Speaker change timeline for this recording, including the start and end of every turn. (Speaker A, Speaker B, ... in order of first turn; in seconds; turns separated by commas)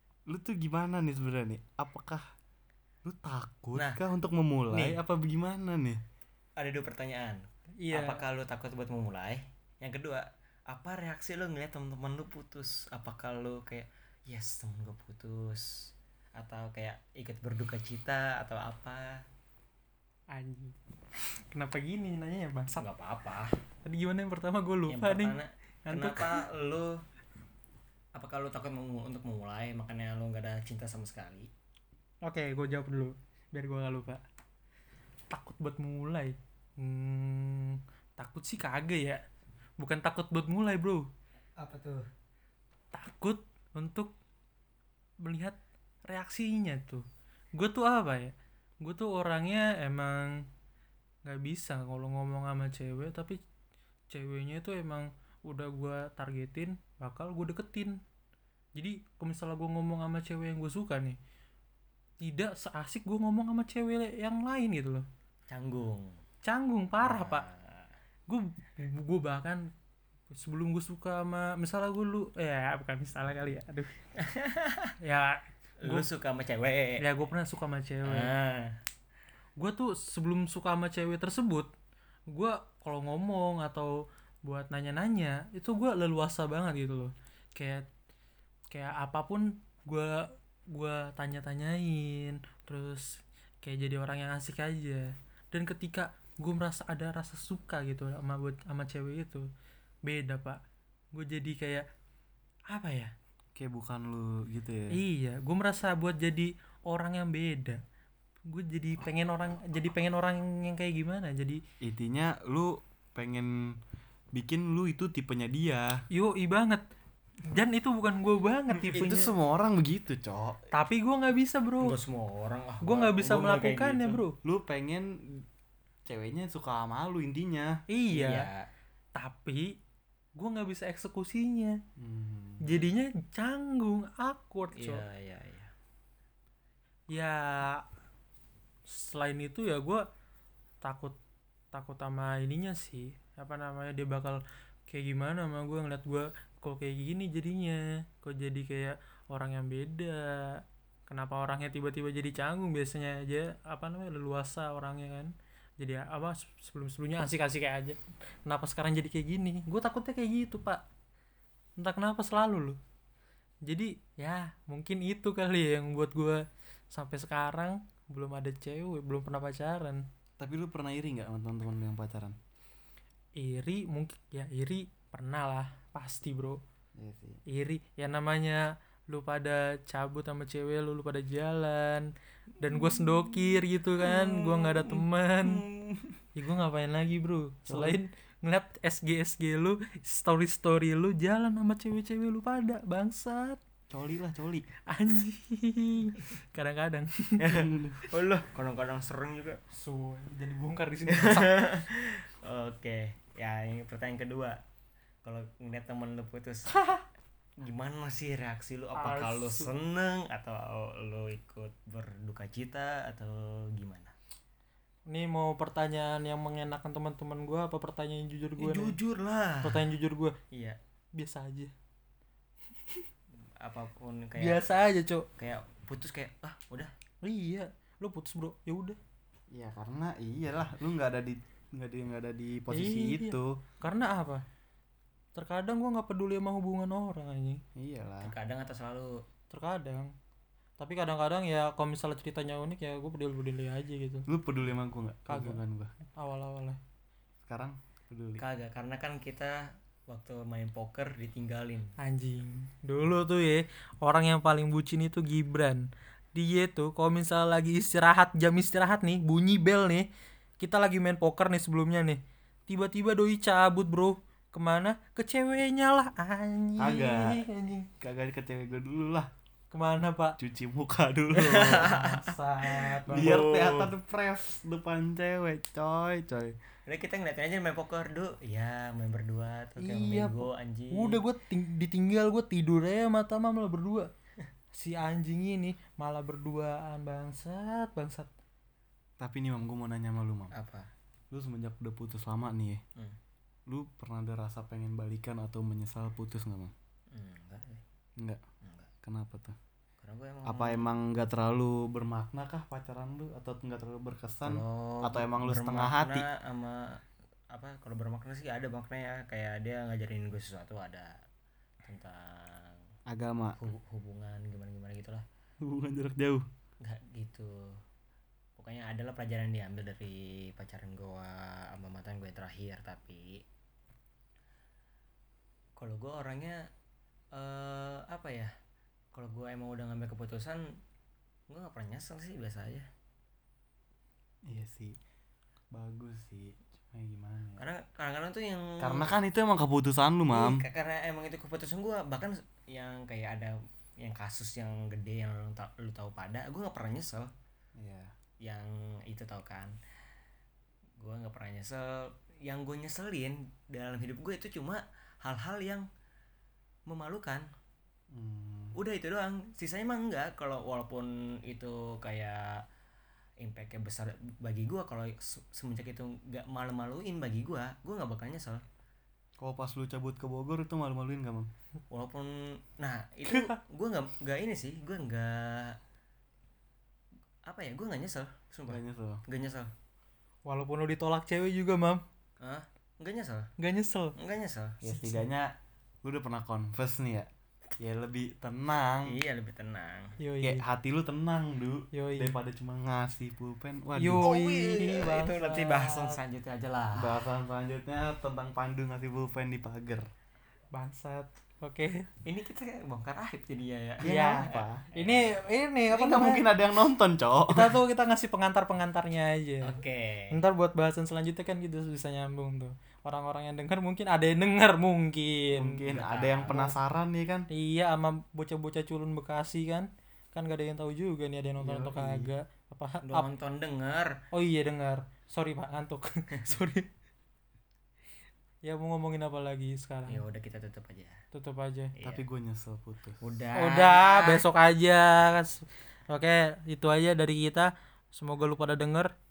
Speaker A: 0.3-2.2, Speaker A: 3.0-6.0, Speaker B: 3.8-4.0, Speaker B: 4.7-5.0, Speaker B: 6.6-19.2, Speaker C: 7.8-8.2, Speaker C: 20.3-20.8, Speaker C: 21.5-22.8, Speaker B: 22.8-23.5, Speaker C: 23.8-26.4, Speaker B: 24.9-27.0, Speaker B: 28.1-31.5, Speaker C: 32.2-34.2, Speaker C: 35.3-39.2, Speaker C: 39.8-41.1, Speaker B: 41.6-42.0, Speaker C: 42.9-44.1, Speaker C: 45.2-50.5, Speaker C: 51.2-53.4, Speaker C: 54.1-58.0, Speaker C: 58.7-61.2, Speaker C: 62.2-65.0, Speaker B: 65.5-66.2, Speaker C: 66.4-67.5, Speaker B: 67.0-67.9, Speaker C: 68.3-69.7, Speaker C: 70.3-73.9, Speaker B: 74.2-74.9, Speaker C: 75.0-76.1, Speaker B: 75.8-77.0, Speaker C: 77.0-78.3, Speaker B: 78.0-78.8, Speaker C: 79.6-81.7, Speaker C: 82.3-87.9, Speaker C: 88.7-99.5, Speaker C: 100.0-100.6, Speaker C: 101.1-101.8, Speaker C: 102.7-103.1, Speaker A: 103.5-105.0, Speaker C: 104.9-107.8, Speaker C: 108.5-111.6, Speaker A: 111.8-113.8, Speaker A: 114.3-116.0, Speaker C: 116.1-116.8, Speaker C: 117.4-119.3, Speaker B: 118.8-119.2, Speaker A: 118.9-120.7, Speaker C: 120.7-122.0, Speaker B: 121.8-124.2, Speaker C: 122.8-124.3, Speaker A: 124.4-125.4, Speaker A: 126.0-127.8, Speaker C: 127.9-128.5, Speaker B: 128.1-128.6, Speaker C: 129.1-129.8, Speaker C: 130.4-131.8, Speaker A: 132.0-132.7, Speaker C: 132.6-135.0, Speaker B: 134.8-135.7, Speaker C: 137.1-137.8, Speaker C: 138.9-140.1, Speaker C: 140.8-141.2, Speaker C: 141.7-160.8, Speaker C: 161.8-162.8, Speaker C: 163.6-170.0, Speaker A: 170.4-172.4, Speaker C: 173.4-176.6, Speaker A: 177.0-177.4, Speaker C: 177.5-185.6, Speaker B: 182.7-186.2, Speaker C: 186.3-193.6, Speaker A: 187.7-188.0, Speaker A: 193.9-194.7, Speaker C: 194.9-197.4, Speaker B: 197.4-199.6, Speaker A: 197.4-198.0, Speaker C: 199.7-201.6, Speaker B: 201.1-204.6, Speaker B: 205.2-206.8, Speaker B: 207.6-214.1, Speaker C: 208.9-209.7, Speaker C: 215.1-219.0, Speaker B: 218.6-219.8, Speaker C: 219.6-220.3, Speaker B: 220.5-220.8, Speaker C: 221.2-221.7, Speaker B: 223.4-224.6, Speaker C: 224.4-225.3, Speaker B: 225.4-226.9, Speaker C: 227.2-229.0, Speaker A: 229.5-233.6, Speaker C: 232.7-234.4, Speaker C: 235.3-237.6, Speaker A: 237.7-238.3, Speaker B: 238.2-239.2, Speaker C: 239.5-240.1, Speaker C: 240.8-244.2, Speaker A: 244.3-245.9, Speaker C: 245.3-245.6, Speaker C: 246.1-246.8, Speaker A: 247.4-248.4, Speaker B: 248.4-251.9, Speaker C: 252.0-260.1, Speaker C: 260.6-267.9, Speaker A: 266.8-267.4, Speaker A: 268.0-269.3, Speaker C: 269.7-270.4, Speaker A: 270.4-272.0, Speaker B: 271.3-273.9, Speaker C: 271.7-273.4, Speaker A: 273.1-276.6, Speaker B: 276.9-281.2, Speaker C: 279.8-284.1, Speaker C: 284.7-288.3, Speaker A: 289.2-290.5, Speaker B: 290.5-290.9, Speaker A: 291.3-292.8, Speaker A: 293.7-296.7, Speaker B: 297.1-297.8, Speaker B: 298.6-298.9, Speaker A: 299.0-299.6, Speaker B: 300.0-300.9, Speaker A: 300.4-306.2, Speaker B: 304.4-311.2, Speaker B: 311.8-312.8, Speaker A: 313.1-313.6, Speaker B: 313.6-315.2, Speaker A: 315.6-316.5, Speaker B: 316.8-317.8, Speaker B: 318.6-323.4, Speaker B: 325.8-326.7, Speaker B: 327.3-328.5, Speaker B: 329.1-330.7, Speaker B: 331.5-332.9, Speaker A: 334.4-335.0, Speaker A: 335.7-337.6, Speaker B: 337.6-339.1, Speaker A: 338.8-340.6, Speaker B: 340.3-347.3, Speaker A: 347.8-348.1, Speaker B: 348.4-349.7, Speaker B: 351.0-355.8, Speaker B: 356.9-357.5, Speaker A: 358.1-358.8, Speaker B: 358.7-362.6, Speaker B: 363.4-368.6, Speaker A: 369.4-371.5, Speaker B: 371.9-375.8, Speaker B: 377.5-379.7, Speaker A: 378.7-379.2, Speaker C: 380.4-382.0, Speaker B: 382.4-383.5, Speaker C: 383.6-384.1, Speaker B: 384.1-384.8, Speaker A: 384.8-387.3, Speaker C: 384.9-385.2, Speaker A: 387.8-389.2, Speaker B: 389.0-390.2, Speaker C: 390.2-390.6, Speaker A: 390.4-394.3, Speaker C: 391.9-392.4, Speaker C: 393.9-396.2, Speaker B: 394.2-397.3, Speaker A: 396.9-400.1, Speaker C: 400.7-402.1, Speaker B: 402.2-405.3, Speaker A: 404.0-404.9, Speaker C: 404.0-406.5, Speaker A: 405.9-407.8, Speaker C: 407.5-409.8, Speaker B: 409.6-410.4, Speaker C: 410.3-415.8, Speaker A: 415.5-417.5, Speaker B: 415.9-416.6, Speaker C: 417.5-423.3, Speaker A: 421.6-422.3, Speaker B: 423.1-424.2, Speaker C: 424.3-426.9, Speaker C: 428.6-430.2, Speaker B: 430.1-431.2, Speaker C: 431.3-431.9, Speaker B: 431.9-432.2, Speaker A: 432.0-433.2, Speaker B: 433.2-434.4, Speaker C: 433.5-439.1